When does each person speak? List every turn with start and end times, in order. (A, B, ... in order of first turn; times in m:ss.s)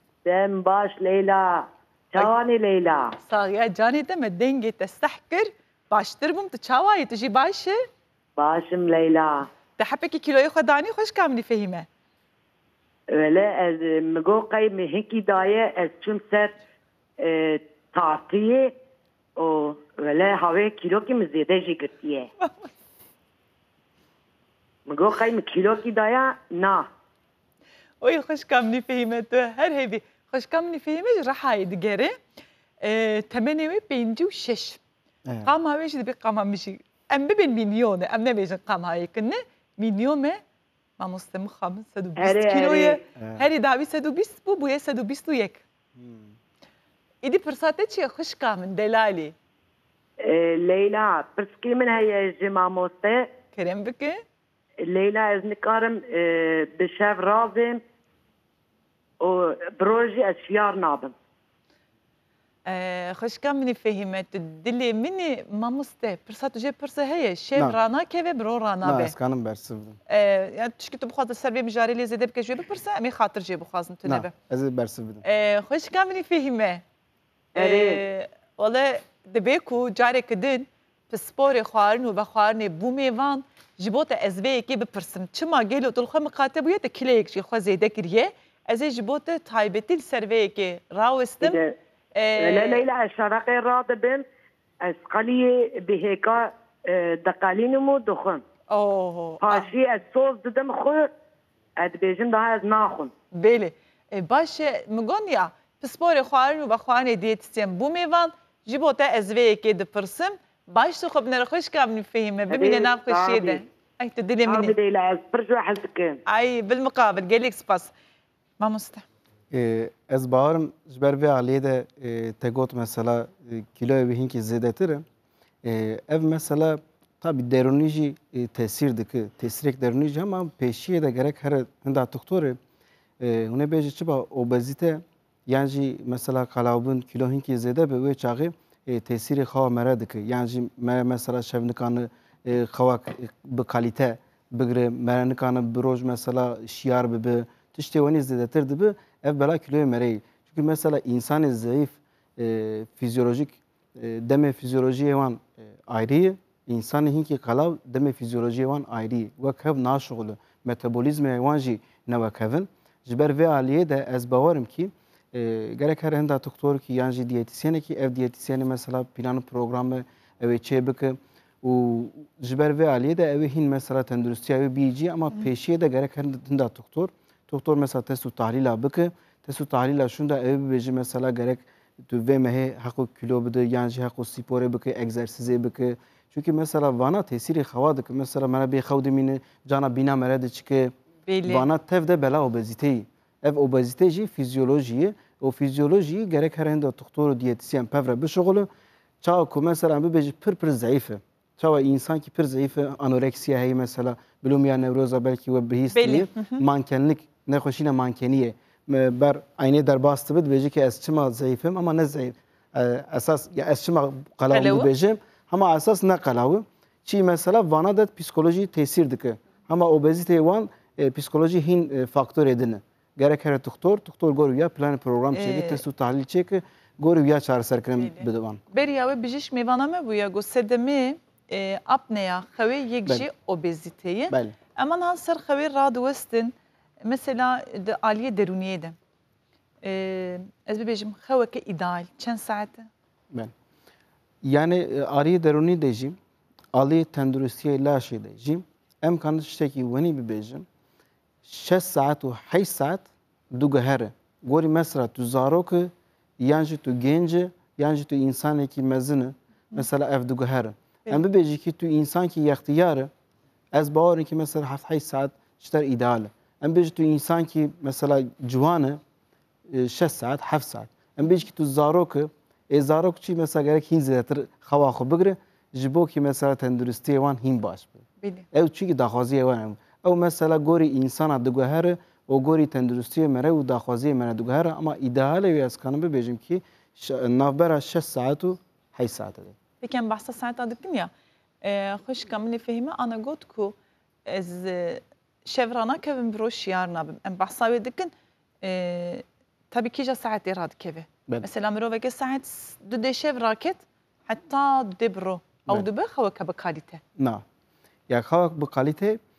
0:00.2-0:03.1 A
0:03.2-0:07.8 B
0:08.4-0:09.5 A
0:09.8-0:11.9 B
0:13.1-0:16.5 A
0:17.2-0:18.7 A
0:19.4-0:22.3 A
0:22.4-0:22.7 B
0:24.9-0:26.9 A
0:28.0-0:32.2 B
0:32.8-0:34.8 B
0:35.4-0:40.4 B
0:41.0-0:45.6 B
0:42.2-0:43.0 A
0:43.2-0:43.4 C
0:46.0-0:46.3 C
0:47.2-0:49.3 B
0:50.2-0:53.3 A
0:53.6-0:54.2 B
0:54.8-0:57.8 A
0:59.2-1:01.1 A
1:02.6-1:09.1 B
1:08.8-1:10.0 C
1:10.1-1:14.3 B
1:14.0-1:15.2 C
1:15.2-1:16.8 B
1:17.5-1:18.0 A
1:17.5-1:31.6 B
1:31.4-1:31.7 A
1:32.1-1:32.8 B
1:32.4-1:34.2 A
1:34.8-1:38.4 A
1:38.7-1:39.7 B
1:39.4-1:41.1 A
1:41.8-1:43.1 A
1:43.3-1:54.8 B
1:52.5-1:53.6 A
1:54.4-1:56.2 A
1:56.3-1:57.9 B
1:58.6-1:59.0 B
1:59.5-2:05.0 C
2:05.6-2:12.6 C
2:13.2-3:10.9 C
3:11.3-3:11.7 B
3:11.4-3:18.7 C
3:19.2-3:48.6 C
3:25.9-3:26.6 B
3:34.5-3:34.9 B
3:45.3-3:45.8 B
3:48.0-3:56.5 B
3:57.0-3:59.0 B
3:59.8-4:02.9 B
4:04.4-4:06.2 C
4:06.7-4:10.6 C
4:11.4-4:23.1 C
4:23.7-4:29.0 C
4:29.7-4:49.5 C
4:38.2-4:38.5 B
4:49.8-4:51.1 B
4:51.6-4:53.7 B
4:54.2-5:07.0 B
5:07.2-5:07.4 C
5:08.1-5:09.2 C